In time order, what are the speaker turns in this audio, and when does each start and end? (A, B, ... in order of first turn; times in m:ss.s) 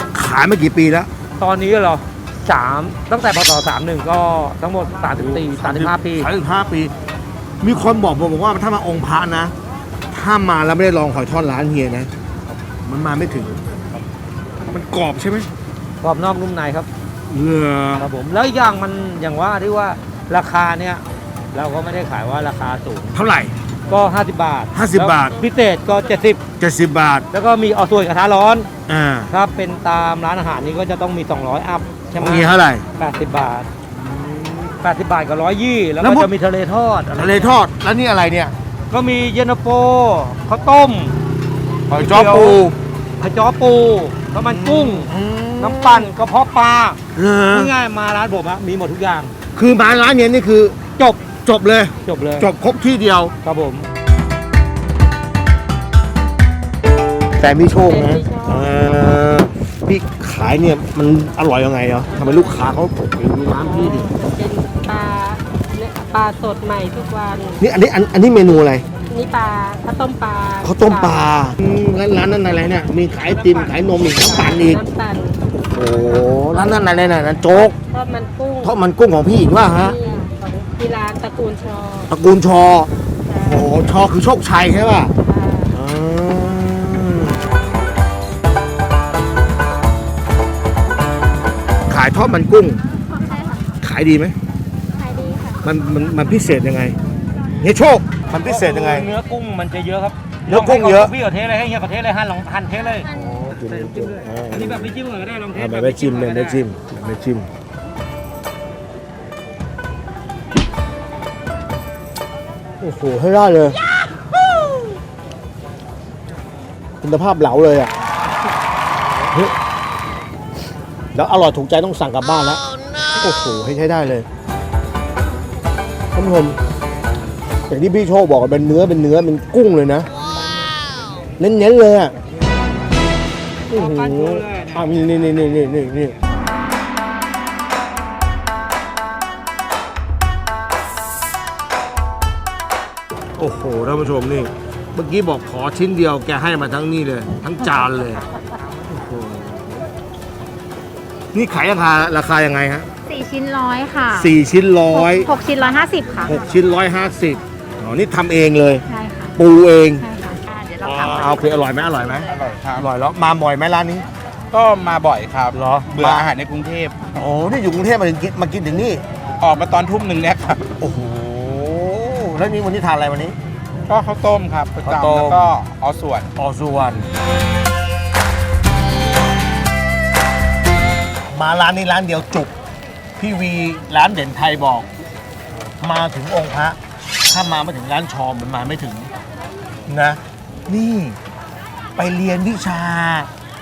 0:00.1-0:01.1 A
0:01.4-0:06.3 B
0:05.2-0:06.9 A
0:07.6-0:09.5 A
0:10.1-0:12.1 A
0:12.8-0:13.6 A
0:14.7-0:15.5 A
0:16.0-0:16.9 B
0:17.3-0:18.1 A
0:18.0-0:23.2 B
0:23.1-0:23.6 A
0:23.9-0:26.4 B
0:24.7-0:25.4 A
0:26.6-0:27.3 A
0:27.3-0:28.7 B
0:28.9-0:29.3 A
0:29.3-0:33.7 B
0:32.2-0:32.8 A
0:34.0-0:34.7 A
0:34.8-0:37.6 B
0:36.0-0:36.3 A
0:37.2-0:38.5 A
0:38.9-0:41.2 B
0:41.9-0:42.8 A
0:41.9-0:42.6 B
0:43.2-0:49.3 B
0:44.4-0:46.1 A
0:47.1-0:47.7 A
0:49.5-0:53.3 A
0:52.0-0:52.5 B
0:53.4-0:53.9 B
0:57.4-1:04.1 A
0:57.8-0:58.7 C
1:02.1-1:02.7 C
1:03.5-1:07.6 C
1:07.6-1:08.9 A
1:09.1-1:11.3 C
1:10.6-1:14.8 A
1:14.2-1:15.4 C
1:15.6-1:17.8 A
1:17.9-1:18.8 C
1:18.6-1:20.0 A
1:19.6-1:22.1 C
1:22.1-1:25.1 A
1:23.3-1:23.8 C
1:25.2-1:25.8 C
1:25.7-1:27.4 A
1:31.9-1:32.8 A
1:33.8-1:34.4 A
1:35.0-1:35.6 C
1:35.6-1:37.0 A
1:37.6-1:39.1 A
1:38.4-1:43.1 B
1:40.5-1:41.1 A
1:43.1-1:44.9 A
1:43.7-1:46.7 B
1:45.5-1:47.5 A
1:52.8-1:53.8 A
1:57.0-1:57.9 A
2:01.1-2:02.6 A
2:03.2-2:04.3 A
2:06.1-2:06.6 A
2:07.7-2:10.1 A
2:11.4-2:12.2 A
2:13.7-2:16.2 A
2:13.7-2:14.9 B
2:23.4-2:28.2 A
2:28.9-2:29.8 A
2:31.3-2:32.9 A
2:33.1-2:34.3 D
2:34.1-2:35.3 A
2:34.9-2:36.3 D
2:36.2-2:38.8 A
2:38.9-2:39.3 D
2:39.4-2:40.1 A
2:40.0-2:42.3 D
2:40.8-2:44.1 A
2:42.3-2:42.8 E
2:44.5-2:47.0 E
2:45.5-2:46.3 A
2:47.2-2:49.0 A
2:49.4-2:50.6 E
2:50.8-2:53.4 A
2:53.9-2:56.3 E
2:54.8-2:55.5 A
2:56.4-2:57.1 A
3:01.3-3:02.5 A
3:03.2-3:04.9 A
3:05.8-3:09.1 A
3:09.9-3:11.2 A
3:12.0-3:13.3 A